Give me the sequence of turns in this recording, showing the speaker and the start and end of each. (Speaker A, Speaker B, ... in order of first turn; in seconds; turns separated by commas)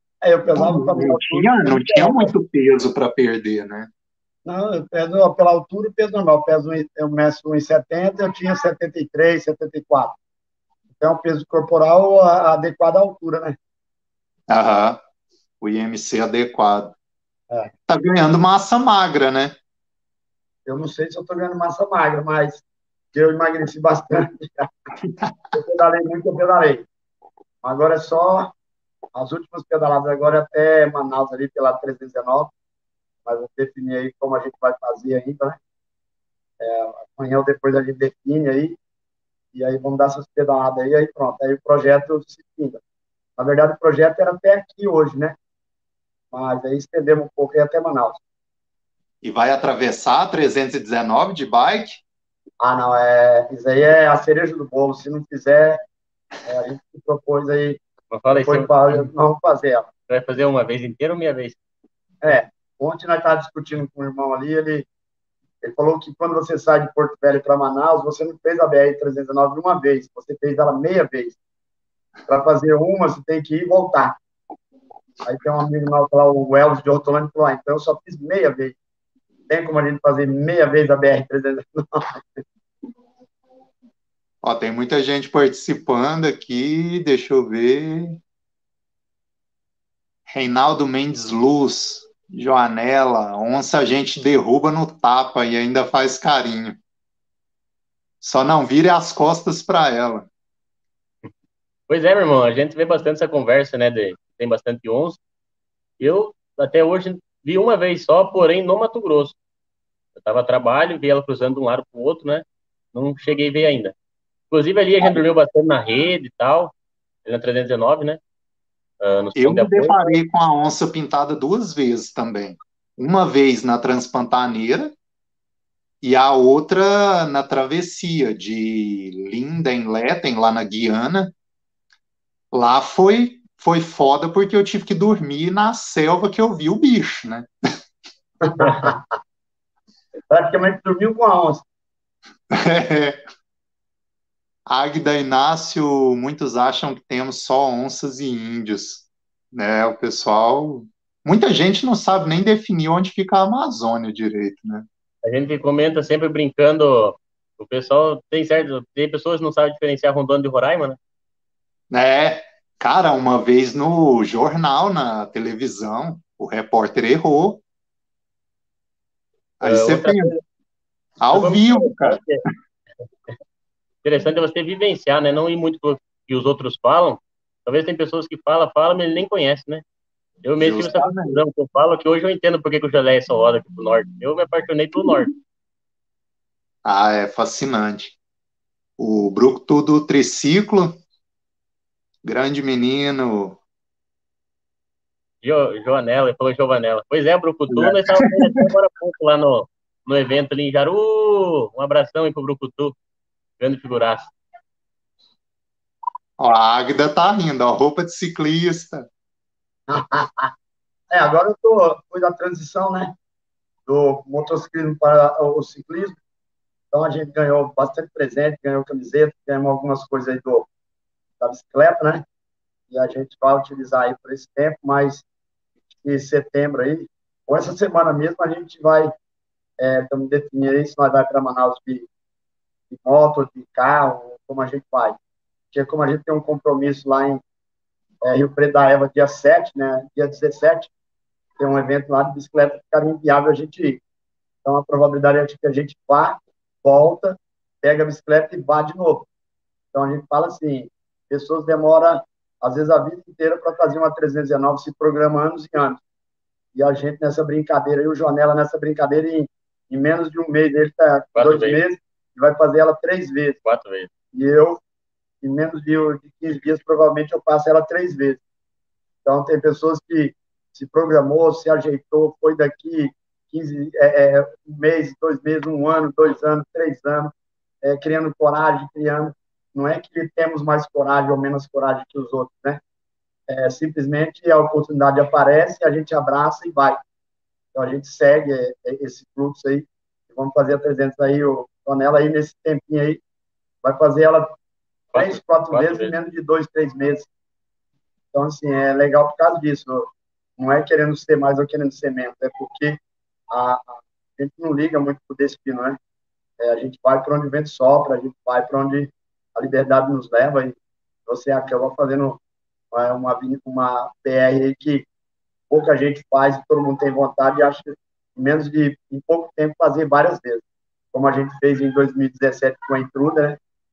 Speaker A: 0.2-2.3, Speaker B: 0.6-3.9, Speaker A: 4.5-10.2, Speaker A: 11.0-13.6, Speaker B: 14.5-15.0, Speaker B: 15.6-16.9, Speaker B: 17.9-19.6, Speaker A: 20.7-22.6, Speaker A: 23.1-24.7, Speaker B: 25.1-25.3, Speaker A: 25.5-26.9, Speaker A: 27.6-28.5, Speaker A: 29.1-32.5, Speaker A: 33.3-35.6, Speaker A: 36.6-38.8, Speaker A: 39.5-42.8, Speaker A: 43.4-45.4, Speaker A: 46.3-48.2, Speaker B: 49.2-52.0, Speaker A: 52.6-55.8, Speaker A: 56.5-57.8, Speaker C: 58.1-59.1, Speaker A: 58.4-59.9, Speaker C: 60.1-61.6, Speaker A: 62.2-64.9, Speaker A: 65.6-71.4, Speaker A: 72.3-74.2, Speaker A: 75.2-78.8, Speaker A: 79.5-82.2, Speaker B: 84.4-88.2, Speaker B: 90.3-96.8, Speaker B: 98.2-100.3, Speaker C: 101.9-105.2, Speaker C: 106.0-109.4, Speaker C: 110.2-114.0, Speaker C: 114.5-116.7, Speaker C: 117.2-118.2, Speaker C: 119.0-120.2, Speaker B: 119.4-124.9, Speaker B: 126.0-131.3, Speaker B: 132.5-137.5, Speaker A: 138.4-139.0, Speaker A: 140.3-141.6, Speaker B: 142.5-143.2, Speaker B: 144.7-154.9, Speaker C: 155.2-161.0, Speaker B: 161.9-167.6, Speaker B: 169.6-170.3, Speaker C: 169.6-170.4, Speaker B: 171.2-172.2, Speaker C: 171.3-172.4, Speaker C: 174.0-179.8, Speaker C: 180.4-185.3, Speaker B: 180.6-181.4, Speaker B: 186.8-188.2, Speaker B: 189.0-191.0, Speaker B: 192.2-193.6, Speaker C: 195.4-203.0, Speaker B: 197.7-198.6, Speaker C: 203.6-204.3, Speaker B: 206.4-209.1, Speaker A: 209.9-210.5, Speaker A: 211.1-213.1, Speaker A: 213.9-216.2, Speaker A: 216.9-220.7, Speaker A: 221.4-222.2, Speaker A: 222.9-225.2, Speaker A: 226.0-229.1, Speaker A: 229.8-232.1, Speaker A: 232.9-235.2, Speaker A: 235.7-237.4, Speaker A: 238.2-240.9, Speaker A: 241.6-244.0, Speaker A: 244.7-249.3, Speaker A: 249.9-256.0, Speaker A: 256.8-263.6, Speaker C: 261.4-261.8, Speaker C: 263.6-264.1, Speaker A: 264.3-264.8, Speaker A: 265.4-268.4, Speaker A: 269.2-277.3, Speaker A: 277.8-282.8, Speaker A: 283.5-287.0, Speaker A: 287.7-293.2, Speaker A: 293.8-294.6, Speaker C: 295.1-296.1, Speaker A: 295.1-297.3, Speaker A: 298.3-303.0, Speaker A: 303.5-306.0, Speaker A: 306.6-310.8, Speaker A: 311.3-312.4, Speaker A: 312.9-315.1, Speaker A: 315.7-323.6